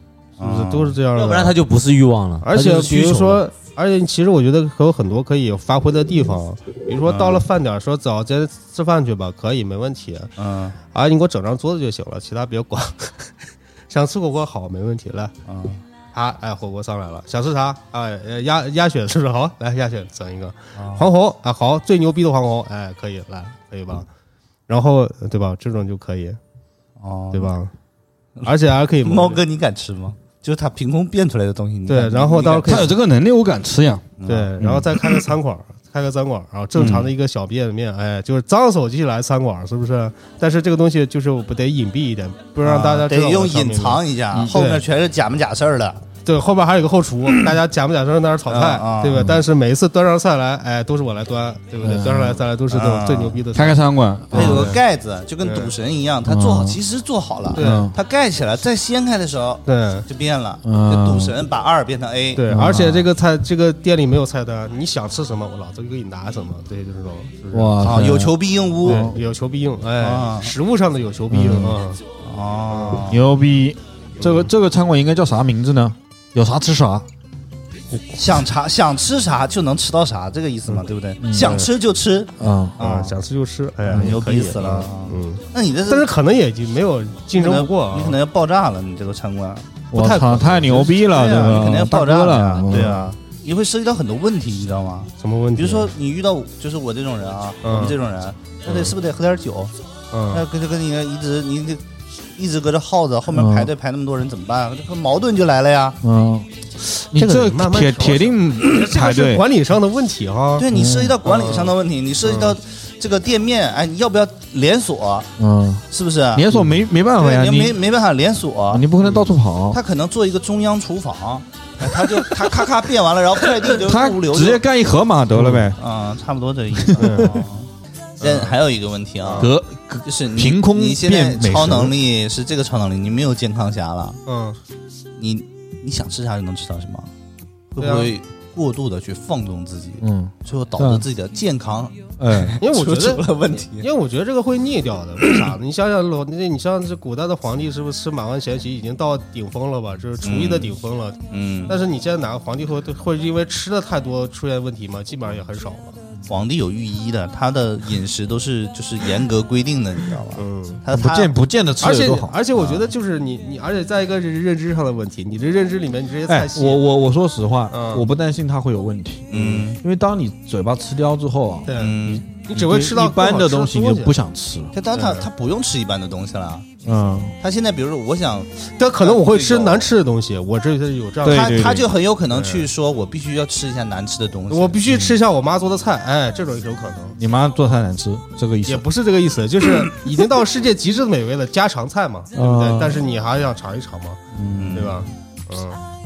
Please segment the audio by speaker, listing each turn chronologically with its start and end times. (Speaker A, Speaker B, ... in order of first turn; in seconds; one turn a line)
Speaker A: 0.4-1.0
Speaker B: 0.4-1.6
Speaker C: 1.1-3.4
Speaker B: 2.4-10.3
Speaker A: 7.0-7.4
Speaker A: 10.4-10.8
Speaker B: 10.9-13.3
Speaker B: 13.9-15.3
Speaker A: 15.5-15.8
Speaker B: 16.1-24.1
Speaker A: 20.7-21.1
Speaker B: 24.7-26.4
Speaker A: 27.0-27.5
Speaker B: 27.3-27.7
Speaker B: 28.4-29.4
Speaker A: 29.0-32.9
Speaker B: 31.9-32.9
Speaker D: 32.6-34.9
Speaker A: 34.2-34.5
Speaker B: 34.3-44.9
Speaker D: 36.7-37.1
Speaker A: 42.6-46.0
Speaker B: 46.2-54.8
Speaker A: 48.5-49.4
Speaker D: 51.8-52.4
Speaker A: 52.7-53.4
Speaker D: 53.5-54.8
Speaker A: 54.3-62.8
Speaker B: 55.4-55.7
Speaker D: 56.2-56.8
Speaker B: 57.5-57.9
Speaker D: 57.5-57.9
Speaker B: 59.6-60.1
Speaker D: 60.6-61.4
Speaker B: 62.3-67.8
Speaker D: 62.5-63.1
Speaker D: 67.5-69.2
Speaker A: 67.8-69.1
Speaker B: 68.8-72.0
Speaker A: 70.0-70.5
Speaker D: 71.3-71.8
Speaker A: 72.2-73.2
Speaker B: 72.7-73.0
Speaker D: 73.1-77.0
Speaker B: 74.2-74.5
Speaker A: 78.1-83.1
Speaker D: 81.2-81.6
Speaker B: 81.3-81.7
Speaker D: 82.4-82.8
Speaker B: 82.8-88.2
Speaker A: 83.8-86.1
Speaker A: 87.3-89.7
Speaker B: 89.9-91.0
Speaker D: 89.9-93.1
Speaker A: 90.9-99.7
Speaker B: 92.7-93.0
Speaker B: 95.2-95.9
Speaker B: 97.6-98.0
Speaker B: 98.7-98.9
Speaker B: 100.1-100.4
Speaker A: 100.3-101.8
Speaker A: 102.3-106.0
Speaker D: 103.3-103.7
Speaker D: 106.0-109.4
Speaker B: 107.1-110.7
Speaker A: 110.6-115.3
Speaker D: 110.7-111.2
Speaker B: 111.2-112.5
Speaker D: 115.4-117.8
Speaker A: 115.9-116.5
Speaker A: 117.1-118.8
Speaker D: 118.7-119.8
Speaker B: 119.0-119.3
Speaker A: 119.7-124.6
Speaker B: 121.8-122.5
Speaker D: 122.1-122.5
Speaker D: 123.6-125.8
Speaker A: 125.7-127.7
Speaker D: 126.8-127.2
Speaker B: 127.0-127.4
Speaker B: 128.2-128.6
Speaker A: 128.2-129.5
Speaker B: 129.2-129.5
Speaker D: 129.4-131.9
Speaker A: 130.0-134.2
Speaker B: 134.2-134.6
Speaker A: 135.2-137.1
Speaker A: 137.7-143.9
Speaker B: 137.8-138.1
Speaker D: 140.0-141.0
Speaker D: 142.2-142.6
Speaker B: 142.6-143.2
Speaker B: 143.8-156.0
Speaker A: 150.2-150.7
Speaker A: 151.3-151.8
Speaker A: 156.2-161.3
Speaker B: 160.4-160.8
Speaker D: 160.9-162.4
Speaker B: 161.8-166.8
Speaker A: 162.5-162.8
Speaker D: 166.3-171.7
Speaker B: 167.7-168.1
Speaker A: 169.3-169.8
Speaker B: 169.3-169.6
Speaker B: 171.7-174.1
Speaker A: 171.7-172.2
Speaker D: 172.5-174.7
Speaker A: 174.7-176.7
Speaker B: 174.9-175.3
Speaker D: 176.8-177.3
Speaker A: 177.4-178.5
Speaker B: 178.8-182.7
Speaker A: 179.0-179.9
Speaker D: 181.2-181.9
Speaker A: 181.2-184.8
Speaker B: 184.5-187.2
Speaker D: 184.9-185.2
Speaker D: 187.2-188.8
Speaker B: 188.7-194.2
Speaker D: 192.3-193.1
Speaker D: 194.3-194.9
Speaker A: 194.5-194.9
Speaker B: 194.7-195.8